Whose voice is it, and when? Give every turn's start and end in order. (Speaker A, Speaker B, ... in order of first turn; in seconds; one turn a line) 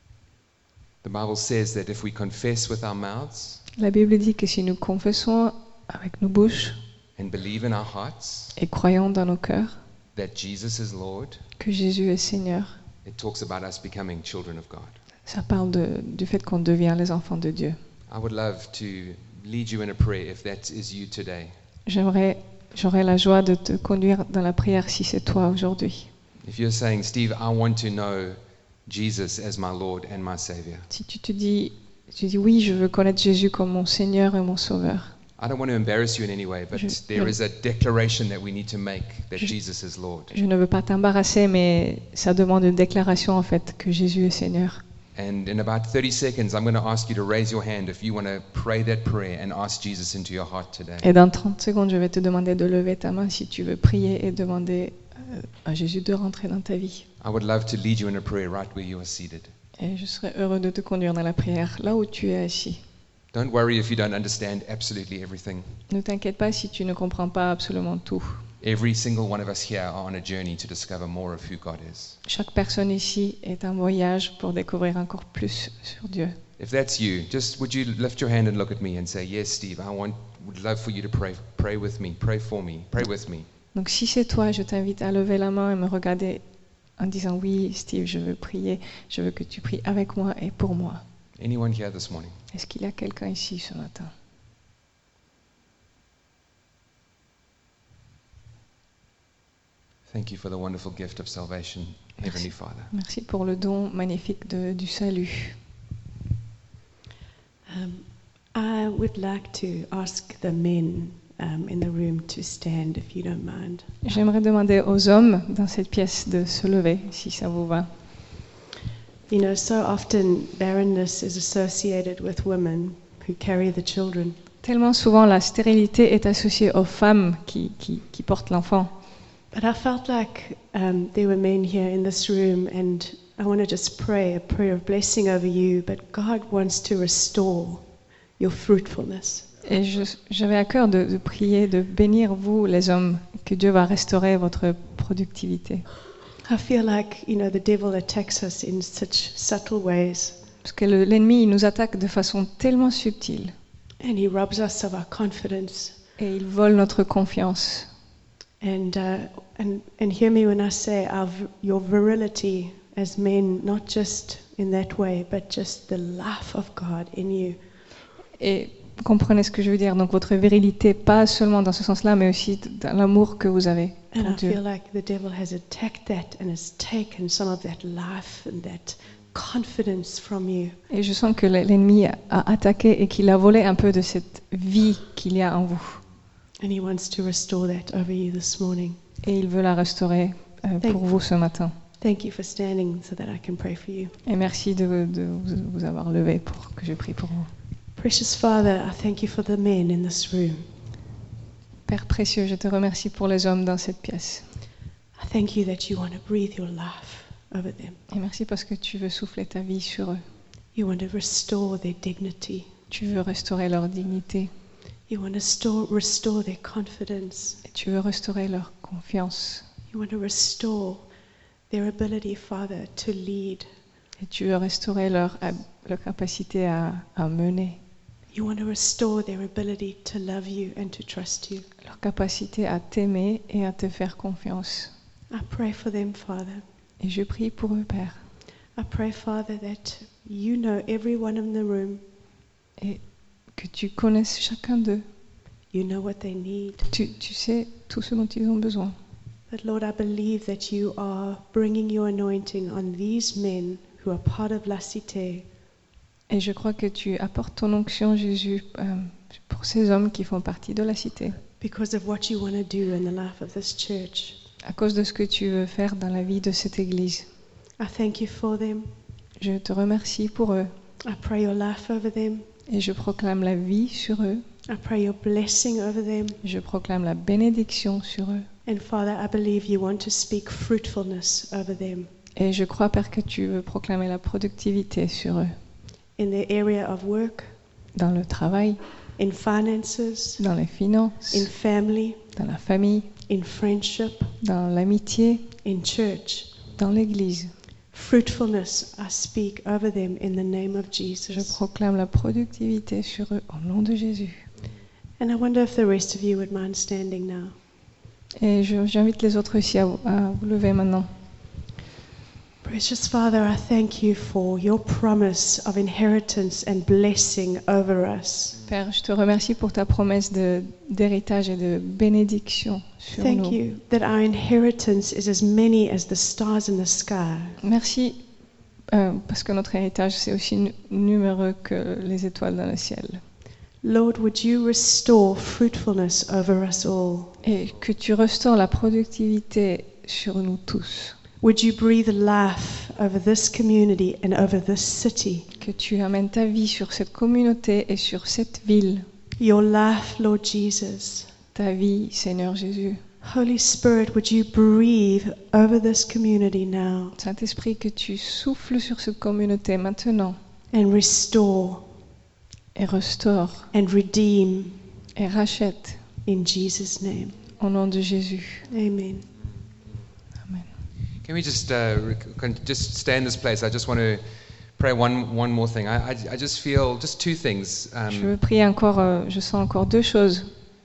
Speaker A: 1.0-3.6
Speaker B: 3.8-6.8
Speaker A: 7.2-8.6
Speaker B: 8.6-9.8
Speaker A: 10.1-11.4
Speaker B: 11.6-12.8
Speaker A: 13.0-15.0
Speaker B: 15.2-17.8
Speaker A: 18.1-21.5
Speaker B: 21.9-26.1
Speaker A: 26.4-30.9
Speaker B: 30.9-35.1
Speaker A: 35.4-40.3
Speaker B: 36.7-37.3
Speaker B: 40.3-44.8
Speaker A: 45.1-51.1
Speaker B: 51.0-57.0
Speaker A: 57.2-59.5
Speaker B: 59.8-62.8
Speaker A: 63.3-65.8
Speaker B: 65.9-68.4
Speaker A: 68.6-72.2
Speaker B: 72.2-76.4
Speaker A: 76.6-83.5
Speaker B: 83.7-86.4
Speaker B: 87.0-91.0
Speaker A: 91.4-92.4
Speaker B: 92.5-94.1
Speaker A: 100.1-102.9
Speaker B: 102.2-105.6
Speaker C: 107.7-114.0
Speaker B: 114.0-117.9
Speaker C: 119.3-124.4
Speaker B: 124.6-128.9
Speaker C: 129.5-137.8
Speaker C: 138.4-139.5
Speaker B: 139.6-145.8
Speaker C: 146.4-150.4
Speaker B: 150.6-153.5
Speaker C: 154.0-155.9
Speaker B: 156.2-157.9
Speaker C: 158.6-167.6
Speaker B: 168.4-174.6
Speaker C: 174.1-180.8
Speaker B: 180.9-186.0
Speaker C: 186.6-189.0
Speaker B: 189.2-191.7
Speaker C: 192.0-194.2
Speaker B: 194.2-197.5
Speaker C: 197.9-200.7
Speaker B: 201.9-204.4
Speaker C: 205.2-208.0
Speaker B: 208.1-210.2
Speaker C: 210.7-212.7
Speaker B: 212.9-214.5
Speaker C: 215.1-217.6
Speaker B: 217.7-219.6
Speaker C: 219.9-221.1
Speaker C: 221.7-223.7
Speaker B: 224.2-227.8
Speaker C: 228.3-231.7
Speaker B: 231.8-234.9
Speaker C: 235.3-236.6
Speaker B: 237.0-238.2
Speaker C: 238.8-242.0
Speaker B: 242.8-245.1
Speaker C: 245.7-246.9
Speaker B: 246.9-248.9
Speaker C: 249.5-255.5
Speaker B: 256.3-261.4
Speaker C: 261.6-264.4
Speaker B: 264.6-267.3
Speaker C: 267.8-268.9
Speaker B: 269.4-270.7
Speaker C: 271.0-272.5
Speaker B: 272.7-274.4
Speaker C: 274.7-276.4
Speaker B: 276.4-278.5
Speaker C: 278.6-282.1
Speaker B: 282.4-285.6
Speaker C: 286.2-287.5
Speaker B: 287.9-288.8
Speaker C: 289.2-290.4
Speaker B: 290.4-291.5
Speaker C: 291.3-292.2
Speaker B: 292.3-293.1
Speaker C: 293.3-294.3
Speaker B: 294.4-295.5
Speaker C: 295.6-296.5
Speaker B: 296.7-297.5
Speaker C: 297.9-301.6
Speaker B: 301.3-304.4
Speaker C: 305.2-307.5
Speaker B: 308.4-311.1
Speaker C: 312.6-318.6
Speaker B: 318.7-323.6
Speaker C: 323.1-327.6
Speaker B: 327.6-328.2
Speaker B: 328.9-333.2
Speaker C: 333.8-337.4
Speaker B: 337.4-341.1
Speaker C: 341.4-345.4
Speaker B: 345.6-349.1
Speaker C: 349.4-351.3
Speaker B: 351.5-353.0
Speaker C: 353.2-357.1
Speaker B: 357.2-360.4
Speaker C: 360.7-361.9
Speaker B: 362.7-363.7
Speaker C: 363.7-364.8
Speaker B: 365.1-366.0
Speaker C: 366.2-367.4
Speaker B: 367.6-368.6
Speaker C: 368.7-369.3
Speaker A: 371.2-374.2
Speaker A: 374.8-378.3
Speaker B: 378.1-380.5